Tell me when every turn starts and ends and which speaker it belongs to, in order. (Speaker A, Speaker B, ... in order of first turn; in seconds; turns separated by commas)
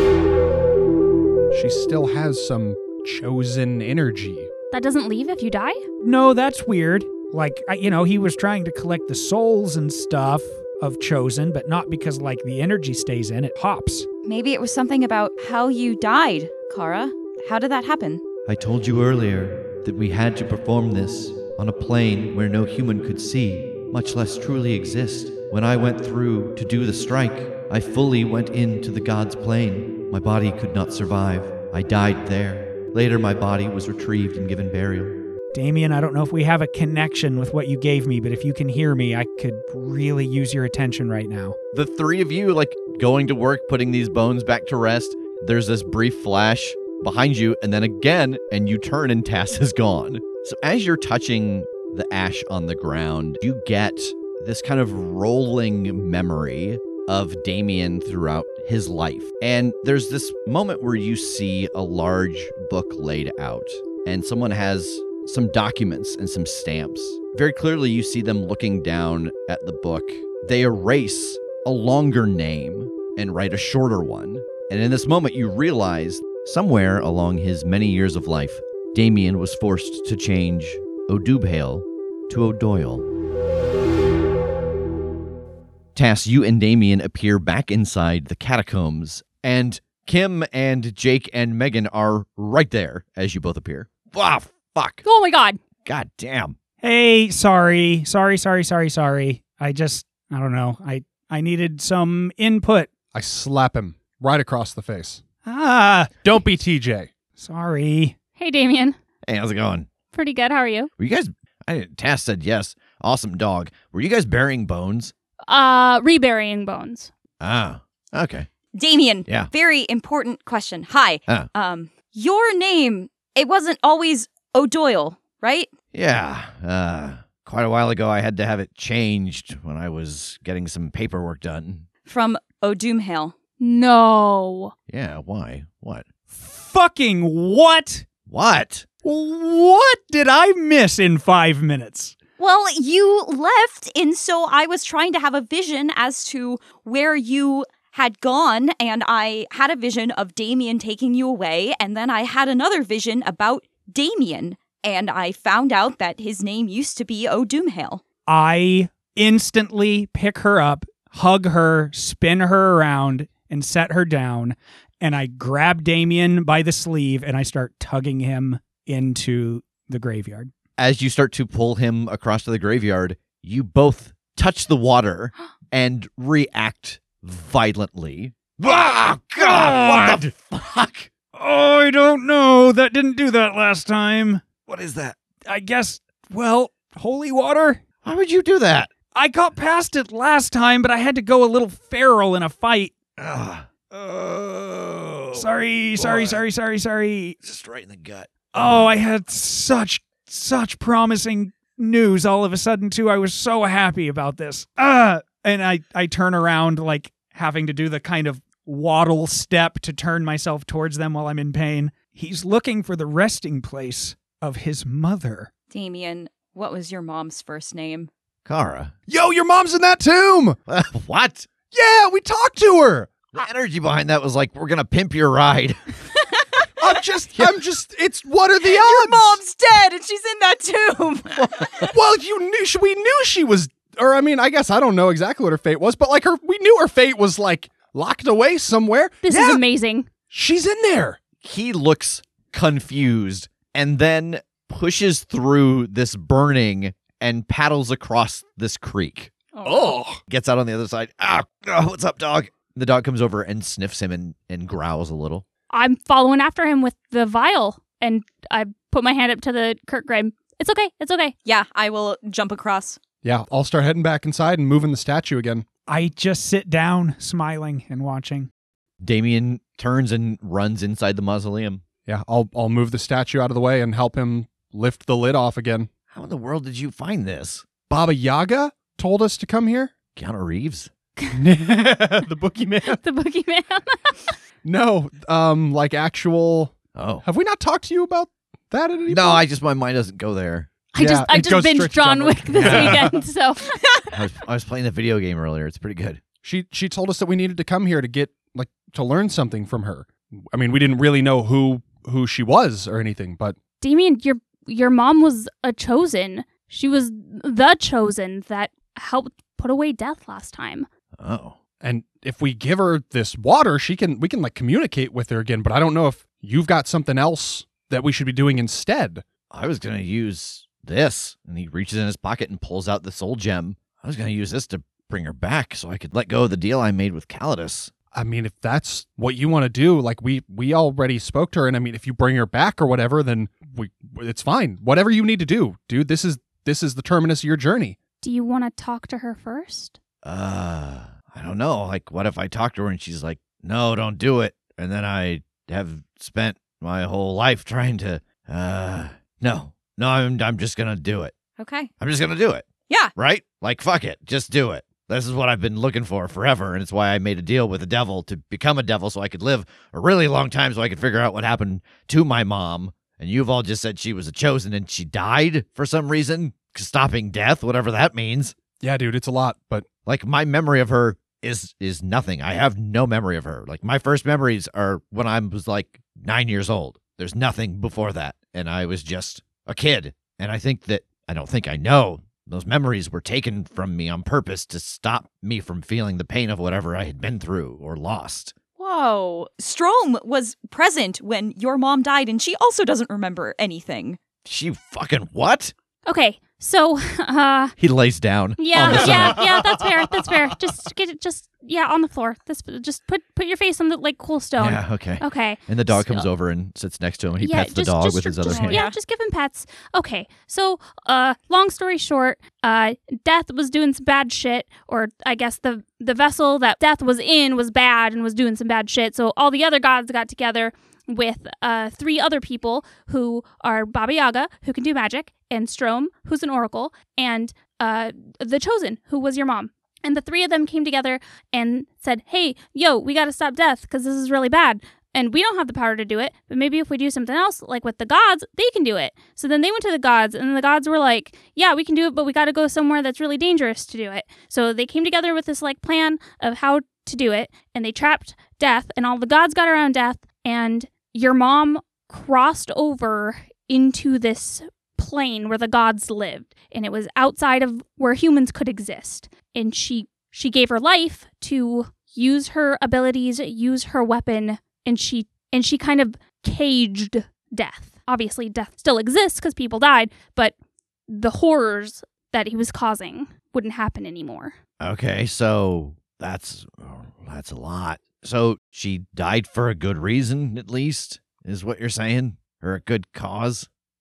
Speaker A: 1.5-4.5, Speaker B: 4.7-5.8, Speaker C: 6.0-14.1, Speaker D: 14.3-18.2, Speaker E: 18.5-35.2, Speaker C: 35.5-41.6, Speaker E: 41.7-83.1, Speaker E: 86.0-95.0, Speaker B: 95.0-95.6, Speaker E: 95.8-96.6, Speaker C: 96.8-102.9, Speaker A: 103.1-105.2, Speaker C: 105.5-106.1, Speaker A: 106.2-107.1, Speaker C: 107.4-108.2, Speaker B: 108.4-109.0, Speaker E: 109.3-109.9, Speaker B: 110.1-110.9, Speaker E: 111.0-115.1, Speaker B: 115.5-117.1, Speaker E: 117.4-118.5, Speaker D: 118.7-125.7, Speaker E: 119.3-119.5, Speaker E: 125.9-131.9, Speaker D: 132.1-133.4, Speaker B: 133.6-134.7, Speaker E: 134.9-136.1, Speaker C: 136.3-138.1, Speaker E: 138.3-138.9, Speaker C: 139.0-142.2, Speaker D: 142.4-158.0, Speaker C: 158.3-170.5, Speaker E: 170.8-181.1, Speaker C: 179.4-180.2, Speaker C: 181.3-184.4, Speaker E: 184.7-185.2, Speaker C: 185.5-187.8, Speaker E: 188.0-188.9, Speaker C: 189.1-192.9, Speaker E: 193.2-196.4, Speaker C: 195.3-197.4, Speaker E: 197.4-198.9, Speaker C: 198.5-215.5, Speaker D: 215.7-218.1, Speaker E: 218.5-218.9, Speaker A: 219.1-220.6, Speaker E: 220.7-221.5, Speaker A: 221.7-223.3, Speaker E: 223.3-225.8, Speaker A: 226.8-229.4, Speaker D: 228.6-231.9, Speaker A: 231.9-239.6, Speaker B: 239.2-240.1, Speaker A: 240.3-241.2, Speaker E: 241.4-249.3, Speaker D: 249.6-250.0, Speaker A: 249.6-250.2, Speaker E: 250.3-255.4, Speaker B: 255.7-261.4, Speaker D: 261.4-263.0, Speaker A: 263.2-265.6, Speaker C: 265.9-268.5, Speaker E: 269.0-271.8, Speaker A: 272.1-275.9, Speaker E: 276.1-277.7, Speaker A: 277.9-279.9, Speaker E: 280.1-280.9, Speaker A: 281.3-283.0, Speaker B: 282.9-284.4, Speaker A: 284.6-289.4, Speaker E: 286.9-287.2, Speaker E: 289.1-290.7, Speaker B: 290.9-294.1, Speaker A: 290.9-293.2, Speaker E: 292.5-293.1, Speaker E: 294.1-296.2, Speaker A: 296.4-303.6, Speaker B: 303.8-310.9, Speaker E: 311.2-311.6, Speaker A: 311.8-319.2, Speaker E: 319.5-327.9, Speaker A: 328.1-338.0, Speaker B: 338.2-340.0, Speaker E: 340.2-351.4, Speaker D: 351.6-351.9, Speaker E: 352.0-368.6, Speaker A: 368.8-369.9, Speaker E: 370.1-388.6, Speaker D: 388.8-394.2, Speaker E: 394.4-395.7, Speaker B: 396.1-397.8, Speaker E: 397.8-399.7, Speaker B: 398.6-406.3, Speaker A: 398.9-399.4, Speaker E: 404.6-408.9, Speaker B: 407.4-470.5, Speaker D: 408.5-409.0, Speaker B: 471.1-474.6, Speaker E: 474.8-483.7